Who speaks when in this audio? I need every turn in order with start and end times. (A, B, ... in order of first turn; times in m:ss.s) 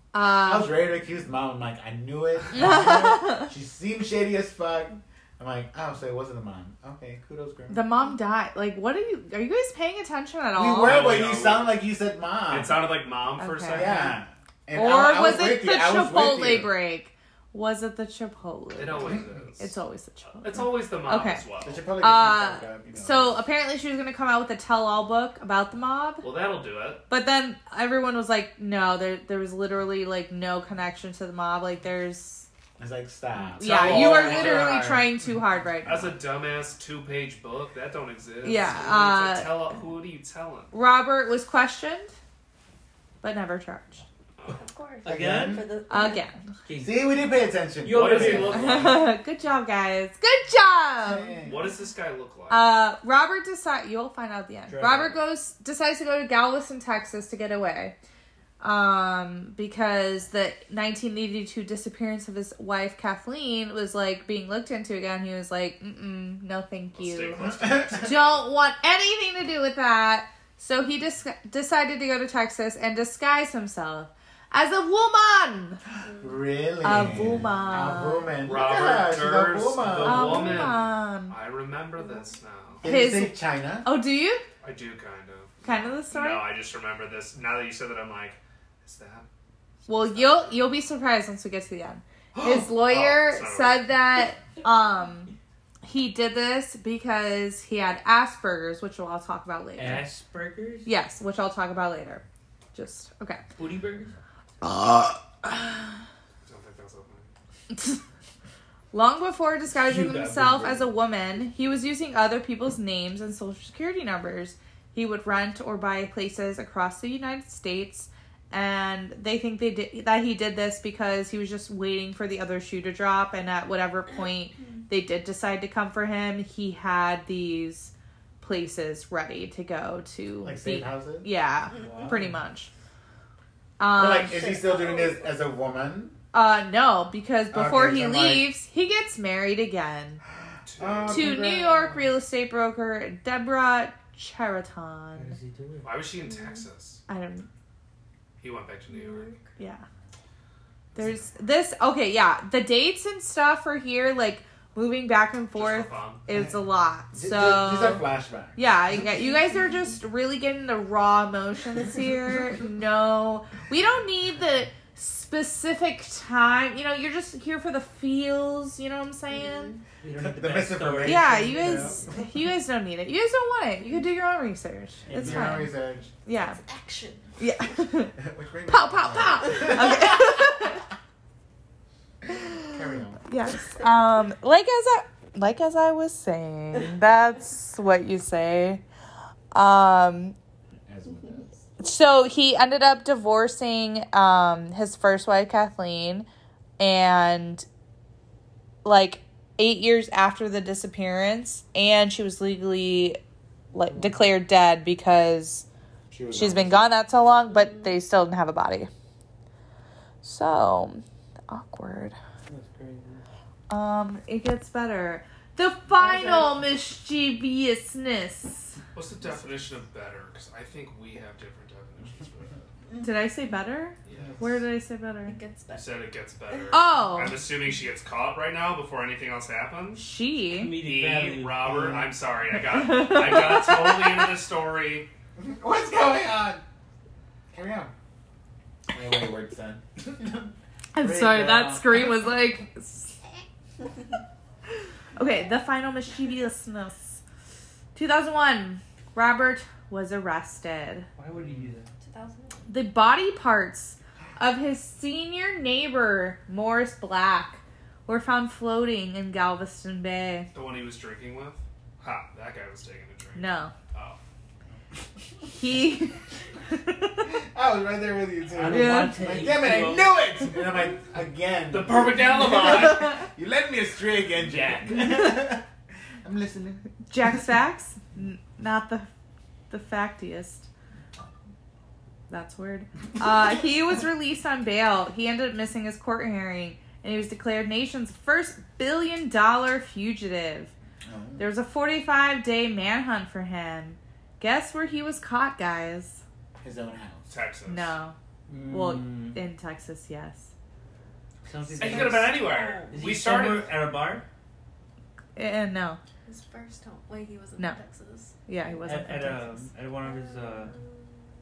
0:00.1-0:00.8 A
0:00.3-0:07.9 B
0:02.5-0:03.5 A
0:07.7-0:11.1 A
0:10.6-0:12.9 B
0:10.8-0:11.8 C
0:12.5-0:14.2 C
0:13.4-0:14.0 A
0:13.7-0:16.8 B
0:14.7-0:26.3 A
0:18.8-0:19.8 C
0:20.4-0:21.8 C
0:21.6-0:23.4 B
0:26.2-0:27.0 C
0:27.1-0:32.5 A
0:32.8-0:35.1 B
0:33.6-0:35.0 C
0:33.6-0:36.2 A
0:35.8-0:40.7 C
0:38.4-0:39.7 A
0:40.7-0:42.2 A
0:43.2-0:44.0 A
0:44.5-0:46.2 D
0:45.0-0:45.7 E
0:45.1-0:45.7 B
0:45.9-0:46.4 A
0:46.7-0:47.2 E
0:46.8-0:49.0 B
0:47.8-0:48.9 E
0:47.9-0:49.0 C
0:48.4-0:51.4 A
0:51.0-0:51.7 B
0:51.4-0:52.7 C
0:52.5-0:58.0 A
0:54.7-0:55.2 E
0:58.6-1:07.4 A
1:06.9-1:08.5 C
1:07.4-1:08.1 B
1:08.0-1:15.8 A
1:16.2-1:20.7 B
1:16.8-1:18.3 A
1:18.4-1:22.9 C
1:20.0-1:21.3 A
1:22.0-1:22.2 D
1:22.8-1:23.9 B
1:22.8-1:24.4 A
1:24.6-1:29.3 C
1:25.6-1:26.5 A
1:29.9-1:30.6 C
1:29.9-1:35.3 A
1:32.3-1:33.9 C
1:35.8-1:40.1 A
1:39.8-1:40.9 E
1:40.9-1:43.4 A
1:43.6-1:44.1 E
1:46.4-1:47.3 C
1:47.7-1:48.0 A
1:48.9-2:12.7 A
1:49.8-1:50.9 C
2:10.4-2:11.3 B
2:11.8-2:12.4 E
2:13.8-2:14.5 A
2:13.9-2:16.2 B
2:14.2-2:15.3 D
2:16.3-2:20.2 A
2:17.5-2:18.5 B
2:20.6-2:21.4 C
2:20.8-2:22.1 B
2:21.1-2:25.4 A
2:25.2-2:26.0 E
2:25.8-2:27.0 C
2:26.2-2:26.6 D
2:27.1-2:27.5 A
2:28.4-2:29.3 C
2:28.9-2:29.5 D
2:29.6-2:29.8 A
2:31.0-2:49.8 A
2:35.6-2:36.2 C
2:37.1-2:38.6 B
2:39.0-2:39.7 D
2:49.3-2:49.8 D
2:50.0-2:52.0 E
2:50.1-2:52.2 B
2:51.0-2:55.7 A
2:55.1-2:55.6 E
2:55.1-2:56.1 B
2:56.2-2:56.6 A
2:56.4-2:57.3 D
2:57.4-2:58.2 A
2:58.2-3:00.3 B
2:58.7-3:00.8 A
3:02.3-3:08.8 A
3:02.4-3:03.2 B
3:09.5-3:10.4 A
3:10.9-3:11.6 B
3:11.8-3:16.3 A
3:16.8-3:17.7 A
3:18.8-3:23.2 A
3:23.7-3:25.7 A
3:23.9-3:24.2 E
3:26.1-3:27.0 B
3:26.3-3:28.9 A
3:30.2-3:32.2 A
3:32.5-3:33.2 E
3:33.7-3:38.8 A
3:35.9-3:36.6 D
3:38.9-3:42.6 C
3:43.0-3:45.4 A
3:44.1-3:44.4 C
3:45.3-3:45.9 D
3:45.7-3:50.1 C
3:46.7-3:47.4 A
3:50.0-3:50.8 A
3:50.5-3:52.1 E
3:50.8-3:55.1 C
3:52.7-3:54.2 A
3:55.4-3:56.6 B
3:57.5-3:57.9 B
3:58.9-4:02.1 B
4:00.9-4:03.2 A
4:05.2-4:07.2 A
4:07.9-4:11.1 A
4:11.2-4:11.9 E
4:12.0-4:12.7 D
4:12.7-4:20.5 A
4:20.5-4:24.2 C
4:23.4-4:23.7 A
4:25.5-4:27.3 A
4:27.2-4:35.7 B
4:28.5-4:30.3 E
4:28.7-4:29.2 A
4:31.7-4:33.2 C
4:36.2-4:36.8 B
4:37.1-4:39.1 A
4:39.7-4:40.7 A
4:42.3-4:50.7 A
4:51.0-4:51.4 B
4:51.4-4:56.2 A
4:56.6-4:57.3 B
4:57.3-4:58.0 C
4:57.7-4:58.2 A
4:58.5-4:59.4 E
4:58.7-5:00.5 A
5:01.4-5:04.2 E
5:01.8-5:03.7 C
5:02.4-5:03.0 D
5:05.4-5:06.0 A
5:06.3-5:08.4 D
5:08.5-5:09.7 A
5:08.8-5:10.8 E
5:10.0-5:11.2 D